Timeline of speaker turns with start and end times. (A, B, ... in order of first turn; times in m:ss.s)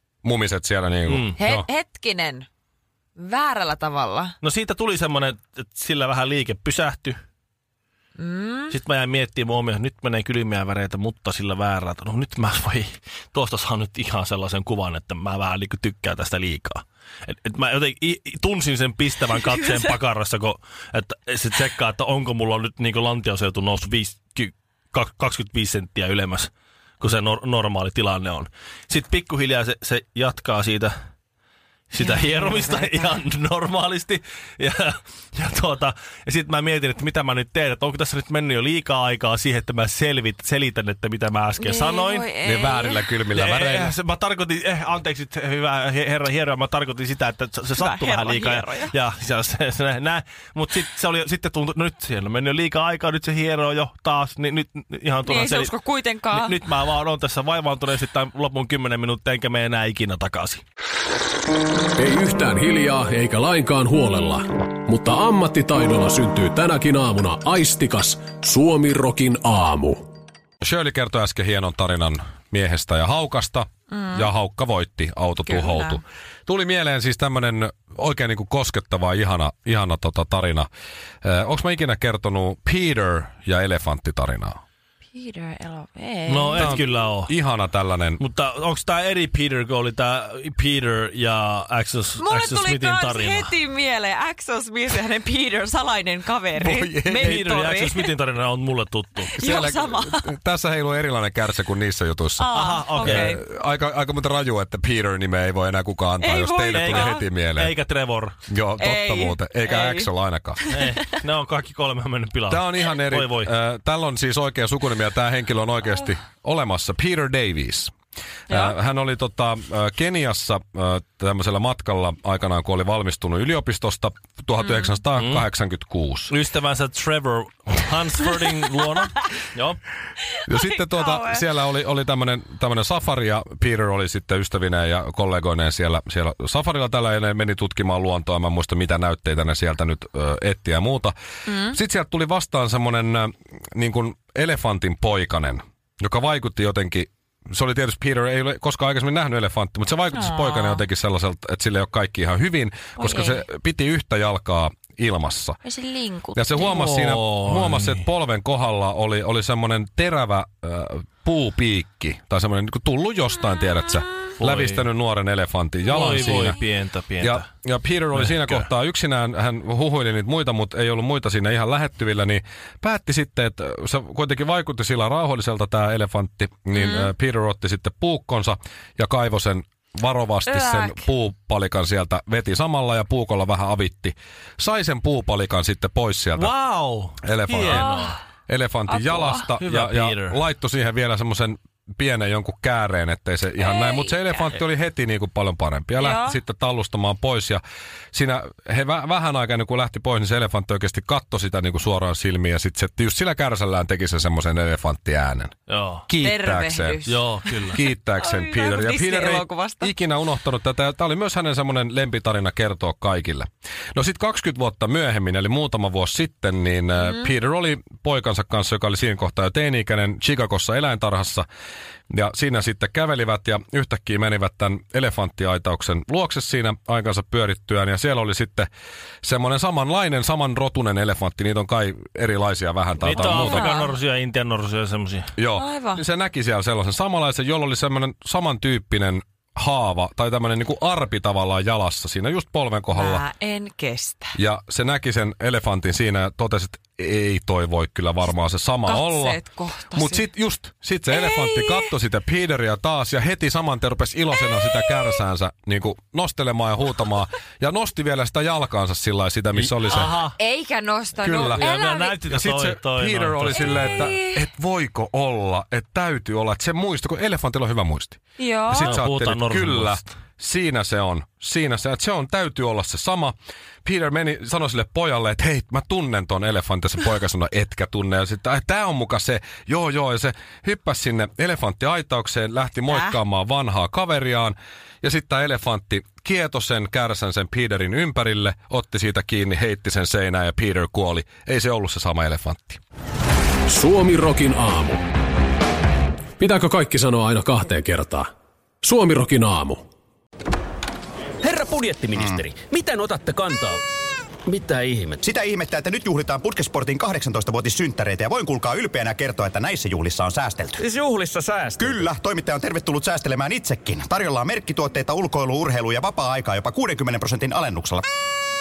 0:00.2-0:01.7 A
0:01.1-0:01.4 B
0:01.4-0:02.5 C
0:03.2-0:04.3 C
0:04.4-0:07.2 B
0:08.2-0:08.7 C
0:08.7-0:30.9 B
0:31.9-0:42.3 B
0:32.0-0:33.2 C
0:41.6-0:43.0 C
0:42.4-0:43.9 A
0:43.3-0:55.7 B
0:47.7-0:48.9 C
0:55.2-0:56.6 C
0:56.3-1:00.6 B
1:02.0-1:10.0 D
1:10.6-1:20.7 A
1:13.9-1:14.3 C
1:15.4-1:16.0 C
1:21.2-1:24.6 A
1:25.1-1:26.8 C
1:26.3-1:27.3 B
1:26.6-1:28.2 A
1:28.2-1:33.5 B
1:32.2-1:38.1 C
1:36.6-1:37.4 A
1:37.2-1:39.3 B
1:39.3-1:40.4 C
1:39.4-1:47.7 A
1:42.4-1:43.4 C
1:42.5-1:43.4 B
1:46.2-1:47.2 C
1:46.7-1:48.4 B
1:48.5-1:50.6 A
1:48.8-1:51.0 C
1:50.7-1:53.5 B
1:52.5-1:57.9 A
1:58.5-2:06.3 A
2:05.2-2:05.4 B
2:06.3-2:09.8 B
2:10.4-2:35.6 A
2:10.5-2:11.4 C
2:21.5-2:21.8 C
2:30.1-2:30.8 C
2:33.0-2:33.4 C
2:35.6-2:36.7 C
2:36.3-2:46.6 A
2:36.6-2:38.0 B
2:44.4-2:44.8 B
2:45.9-2:47.5 B
2:47.2-3:06.5 A
2:48.1-2:48.7 B
2:56.7-2:57.1 C
3:00.5-3:01.0 C
3:06.4-3:08.2 B
3:07.2-3:17.6 A
3:07.7-3:08.1 C
3:09.2-3:10.4 B
3:13.6-3:14.5 C
3:16.0-3:16.4 C
3:18.1-3:25.5 A
3:25.7-3:26.0 B
3:26.1-3:27.1 A
3:26.2-3:29.9 C
3:27.0-3:27.8 B
3:27.7-3:41.4 A
3:37.0-3:37.3 C
3:42.1-3:48.7 A
3:49.2-3:53.7 A
3:53.0-3:55.3 B
3:53.1-3:53.9 C
3:55.4-4:03.2 A
3:55.5-3:56.0 C
4:02.9-4:04.3 C
4:04.3-4:20.2 A
4:08.8-4:10.2 C
4:11.1-4:11.9 C
4:19.5-4:20.4 B
4:20.4-4:22.2 C
4:21.2-4:21.7 A
4:21.2-4:24.1 B
4:22.2-4:52.8 A
4:23.5-4:24.5 C
4:28.4-4:28.9 C
4:28.7-4:30.1 B
4:42.9-4:43.2 C
4:53.7-4:55.0 D
4:56.4-4:58.3 D
4:58.8-4:59.8 D
5:01.4-5:03.8 E
5:02.1-5:02.4 F
5:04.5-5:05.2 E
5:05.2-5:10.8 F
5:10.8-5:11.8 E
5:11.8-5:18.0 F